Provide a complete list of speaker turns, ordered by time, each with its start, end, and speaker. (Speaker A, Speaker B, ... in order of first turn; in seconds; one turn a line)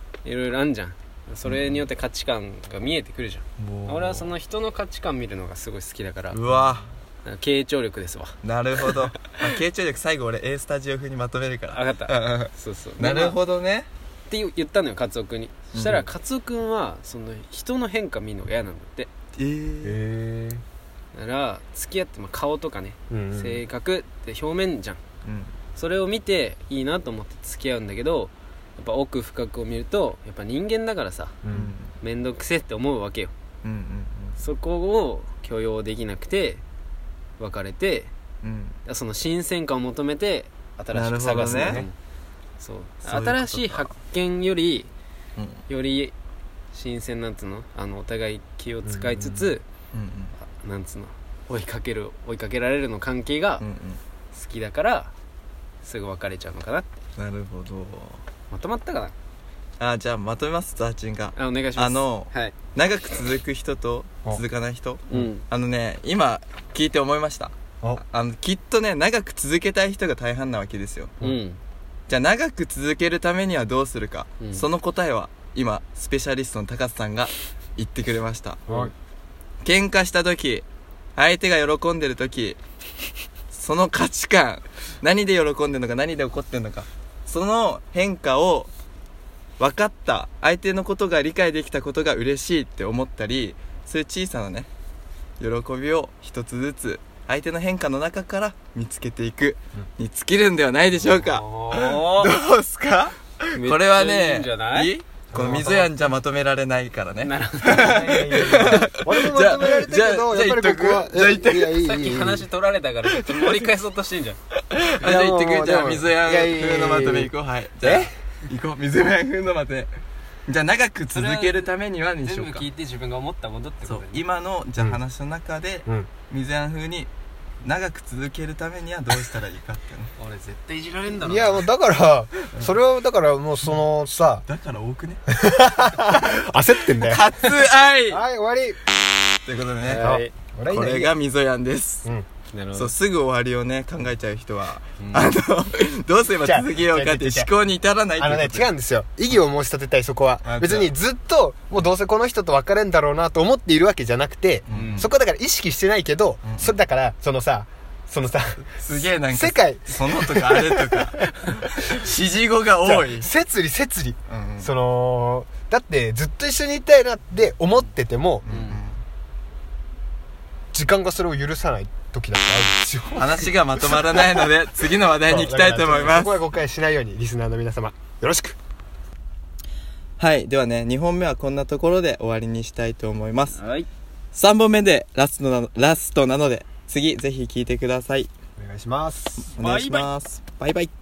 Speaker A: 0.2-6.4
Speaker B: 1.4-1.9
Speaker B: 3.6-4.3
Speaker B: 6.3-6.9
Speaker A: 7.2-9.3
Speaker B: 8.4-13.9
Speaker A: 11.7-13.4
Speaker A: 14.3-19.1
Speaker B: 15.7-16.1
Speaker B: 19.4-20.0
Speaker C: 19.8-20.6
Speaker A: 21.1-25.0
Speaker C: 23.1-23.6
Speaker B: 25.2-25.5
Speaker A: 25.8-31.4
Speaker C: 31.4-31.7
Speaker B: 31.5-31.9
Speaker A: 32.0-33.3
Speaker B: 33.6-34.4
Speaker A: 34.4-36.6
Speaker A: 37.4-38.1
Speaker B: 38.4-38.8
Speaker A: 38.9-41.9
Speaker B: 40.9-41.8
Speaker C: 41.1-41.9
Speaker A: 42.6-44.9
Speaker B: 43.0-43.9
Speaker B: 45.4-45.6
Speaker A: 45.7-46.1
Speaker A: 46.7-49.6
Speaker C: 48.8-49.3
Speaker B: 49.3-50.3
Speaker A: 50.4-53.6
Speaker B: 53.6-54.0
Speaker A: 54.3-55.1
Speaker A: 55.8-56.9
Speaker B: 57.2-58.2
Speaker A: 58.5-59.1
Speaker B: 59.8-71.2
Speaker A: 61.3-62.6
Speaker A: 65.1-65.4
Speaker A: 71.2-71.6
Speaker B: 72.1-78.7
Speaker A: 74.4-74.6
Speaker A: 78.7-78.9
Speaker C: 78.7-78.9
Speaker B: 79.6-80.6
Speaker B: 81.2-82.6
Speaker B: 83.5-88.7
Speaker B: 89.6-94.7
Speaker B: 95.4-112.1
Speaker A: 101.2-102.3
Speaker A: 103.5-104.9
Speaker C: 105.3-105.9
Speaker A: 107.2-108.2
Speaker C: 107.8-112.5
Speaker A: 111.8-114.4
Speaker B: 113.3-113.6
Speaker B: 114.7-119.9
Speaker C: 115.0-118.1
Speaker B: 120.5-122.7
Speaker A: 121.1-121.7
Speaker A: 122.2-124.2
Speaker B: 123.8-127.1
Speaker B: 127.6-130.1
Speaker A: 130.2-131.6
Speaker C: 131.2-134.4
Speaker B: 134.4-135.2
Speaker C: 135.3-137.2
Speaker B: 136.9-138.2
Speaker C: 138.1-138.8
Speaker B: 139.4-140.0
Speaker A: 139.8-140.3
Speaker C: 140.0-141.1
Speaker B: 140.7-142.1
Speaker A: 142.5-142.9
Speaker B: 142.7-148.7
Speaker A: 145.0-145.3
Speaker C: 146.4-147.5
Speaker C: 148.2-161.7
Speaker B: 150.4-150.9
Speaker B: 154.7-155.1
Speaker A: 154.7-155.1
Speaker B: 156.4-156.7
Speaker B: 158.8-163.3
Speaker C: 162.8-168.4
Speaker B: 164.3-164.7
Speaker B: 168.4-169.0
Speaker A: 168.5-168.8
Speaker C: 170.7-174.5
Speaker B: 173.2-176.4
Speaker C: 175.2-178.6
Speaker B: 180.2-183.6
Speaker A: 183.5-183.9
Speaker B: 184.3-188.3
Speaker C: 188.6-189.5
Speaker B: 189.5-190.9
Speaker A: 189.6-190.1